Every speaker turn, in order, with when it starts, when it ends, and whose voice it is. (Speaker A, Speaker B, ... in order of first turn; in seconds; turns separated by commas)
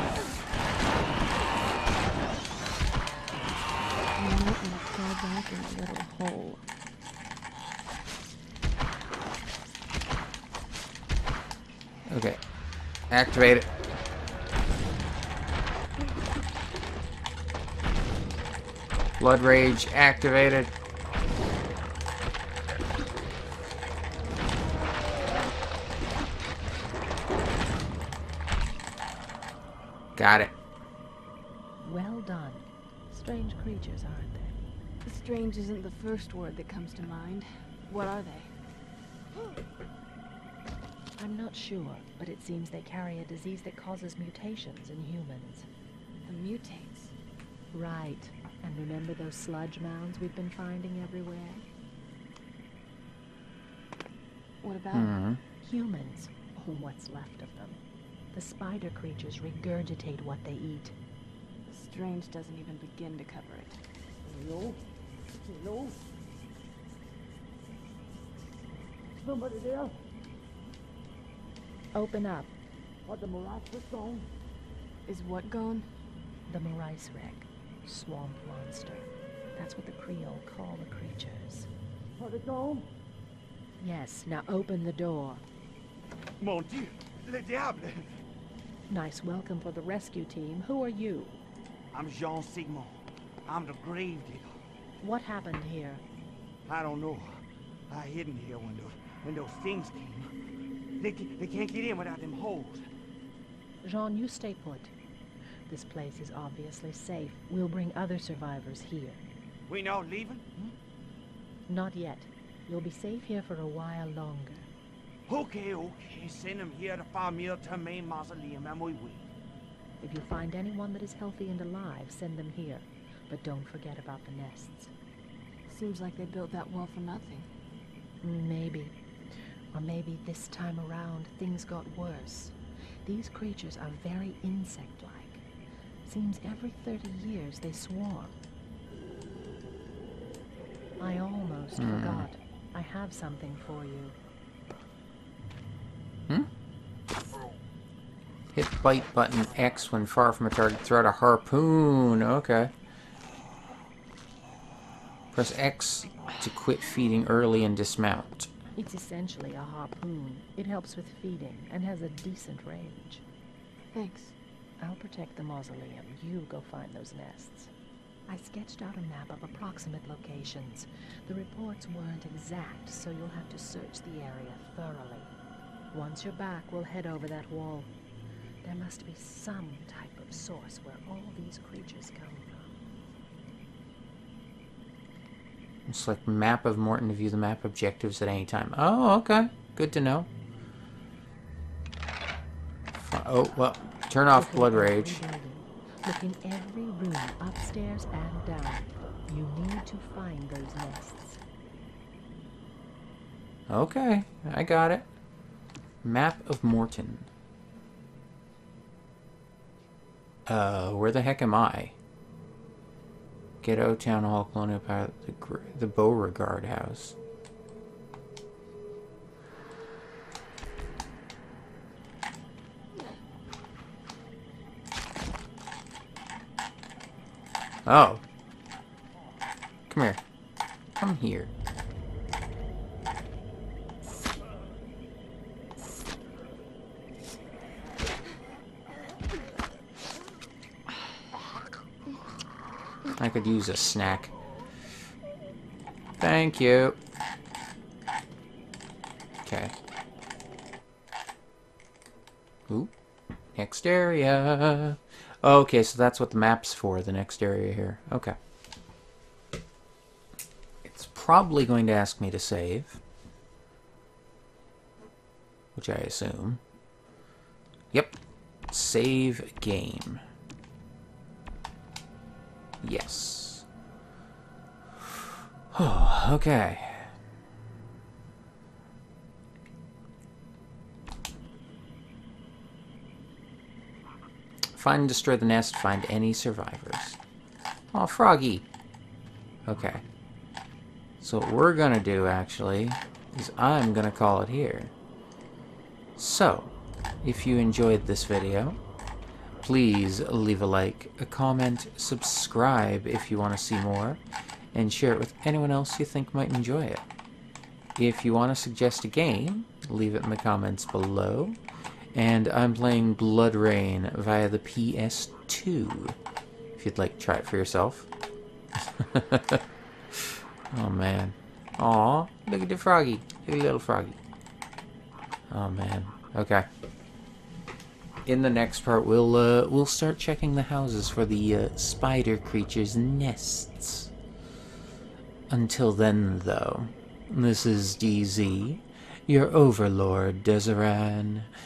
Speaker A: 4.2-6.6, Speaker B: 12.1-12.4, Speaker B: 13.1-13.7, Speaker B: 19.2-20.7, Speaker B: 30.2-30.5, Speaker C: 31.8-34.6, Speaker A: 35.0-38.5, Speaker C: 41.2-45.7, Speaker A: 46.3-47.1, Speaker C: 47.7-51.6, Speaker A: 54.6-55.2, Speaker B: 54.9-55.4, Speaker C: 55.6-57.8, Speaker C: 58.3-61.0, Speaker A: 61.7-63.8, Speaker C: 71.9-72.5, Speaker A: 75.1-75.9, Speaker C: 76.5-81.7, Speaker C: 83.8-85.4, Speaker D: 86.4-88.1, Speaker C: 88.9-91.4, Speaker D: 91.9-94.6, Speaker C: 95.0-96.0, Speaker D: 96.7-100.3, Speaker D: 101.0-102.9, Speaker C: 103.8-104.9, Speaker C: 105.7-109.2, Speaker D: 109.7-110.7, Speaker C: 111.7-114.7, Speaker D: 115.3-119.3, Speaker C: 120.0-124.9, Speaker A: 125.7-127.5, Speaker C: 128.2-128.9, Speaker C: 129.7-132.6, Speaker C: 133.1-135.4, Speaker C: 136.1-138.3, Speaker C: 141.0-144.2, Speaker B: 141.8-142.3, Speaker B: 148.5-152.7, Speaker B: 155.3-158.5, Speaker C: 158.8-163.2, Speaker A: 163.9-164.3, Speaker C: 164.8-167.7, Speaker C: 168.3-175.3, Speaker C: 175.9-177.9, Speaker C: 178.6-182.7, Speaker B: 185.9-190.3, Speaker B: 192.9-195.2, Speaker C: 194.3-201.4, Speaker B: 203.7-205.1, Speaker B: 206.0-207.3, Speaker B: 210.5-211.9, Speaker B: 213.6-217.2, Speaker B: 227.9-228.2, Speaker B: 229.9-230.2, Speaker B: 231.0-231.5, Speaker B: 243.2-244.3, Speaker B: 246.2-247.0, Speaker B: 249.4-249.8, Speaker B: 253.6-258.4, Speaker B: 260.8-263.0, Speaker B: 265.8-266.6, Speaker B: 268.7-270.2, Speaker B: 272.8-273.7, Speaker B: 275.0-277.1, Speaker B: 284.7-287.2, Speaker B: 287.9-288.7, Speaker B: 289.7-290.0, Speaker B: 291.2-294.9, Speaker B: 296.2-298.8, Speaker B: 299.6-304.2, Speaker B: 304.7-307.1, Speaker B: 308.0-311.6, Speaker B: 312.1-316.2, Speaker B: 316.8-318.1, Speaker B: 318.8-324.2, Speaker B: 325.5-326.7, Speaker B: 328.3-334.1, Speaker B: 335.5-341.5